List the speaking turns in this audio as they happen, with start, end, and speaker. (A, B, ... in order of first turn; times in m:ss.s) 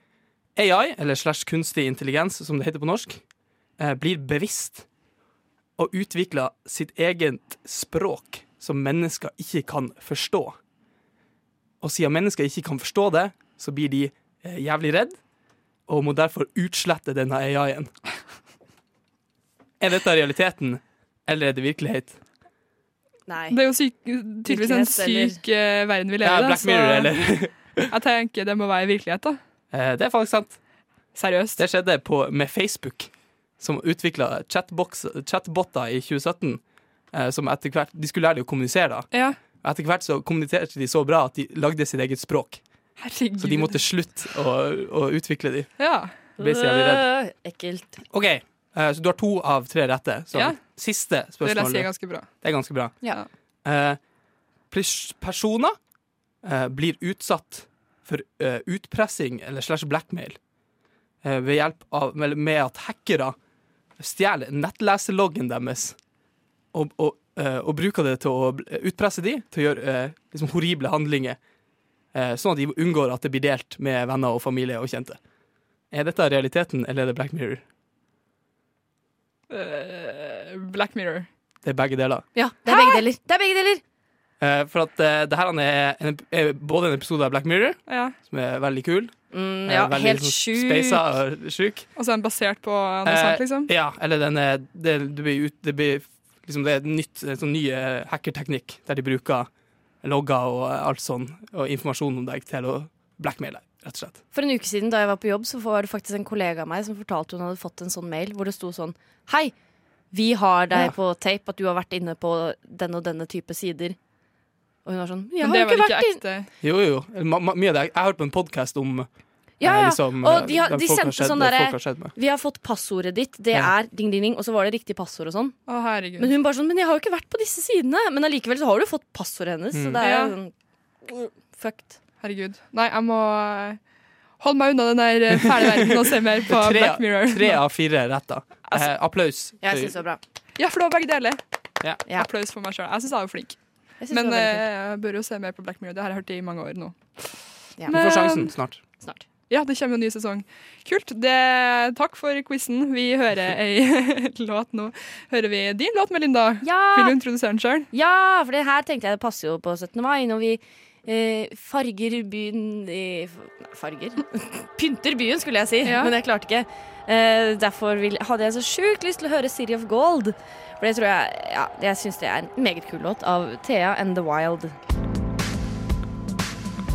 0:00.6-0:03.2 A
0:03.8-0:04.8 A
0:05.8-0:10.6 A
0:11.8-0:15.2 A
0:15.9-0:17.9 A
0:19.8-0:22.2 A
0:23.3-0:23.6 B
0:23.5-0:27.1 C
0:24.4-0:25.4 B
0:26.2-0:27.9 A
0:27.9-0:29.4 C
0:29.7-0:30.6 A
0:31.1-0:31.6 C
0:31.6-0:36.6 A
0:37.1-0:39.1 A
0:39.1-0:39.4 C
0:39.6-0:42.6 A
0:43.0-0:43.8 C
0:43.4-0:45.7 A
0:45.8-0:46.1 C
0:46.4-0:47.0 A
0:46.4-0:48.0 B
0:48.1-0:53.0 A
0:50.3-0:50.6 C
0:51.4-0:52.3 C
0:53.6-0:54.0 A
0:54.7-0:55.8 A
0:56.4-1:00.4 A
1:01.2-1:03.3 A
1:04.0-1:06.0 A
1:06.7-1:11.4 A
1:12.1-1:15.2 A
1:15.9-1:17.6 A
1:19.5-1:21.3 C
1:21.6-1:22.2 A
1:22.3-1:23.8 B
1:22.6-1:23.0 C
1:24.4-1:29.1 A
1:27.9-1:28.1 C
1:29.3-1:31.0 B
1:29.6-1:31.9 A
1:32.0-1:33.7 C
1:33.0-1:39.5 A
1:40.0-1:44.2 A
1:44.3-1:49.5 B
1:50.1-1:54.0 B
1:54.8-1:56.2 B
1:55.4-1:56.5 C
1:56.6-1:59.1 A
1:59.6-2:05.6 B
1:59.6-2:02.1 A
2:05.7-2:06.3 C
2:06.2-2:10.5 B
2:09.7-2:10.0 A
2:10.0-2:10.4 C
2:11.0-2:11.9 B
2:12.2-2:13.8 C
2:14.4-2:17.6 C
2:15.5-2:15.8 A
2:16.5-2:19.9 A
2:19.6-2:20.2 B
2:20.6-2:21.4 C
2:22.2-2:23.6 C
2:24.0-2:24.6 B
2:24.1-2:28.5 C
2:27.9-2:28.8 A
2:29.5-2:37.9 C
2:36.6-2:37.2 B
2:37.9-2:54.7 B
2:45.8-2:46.1 C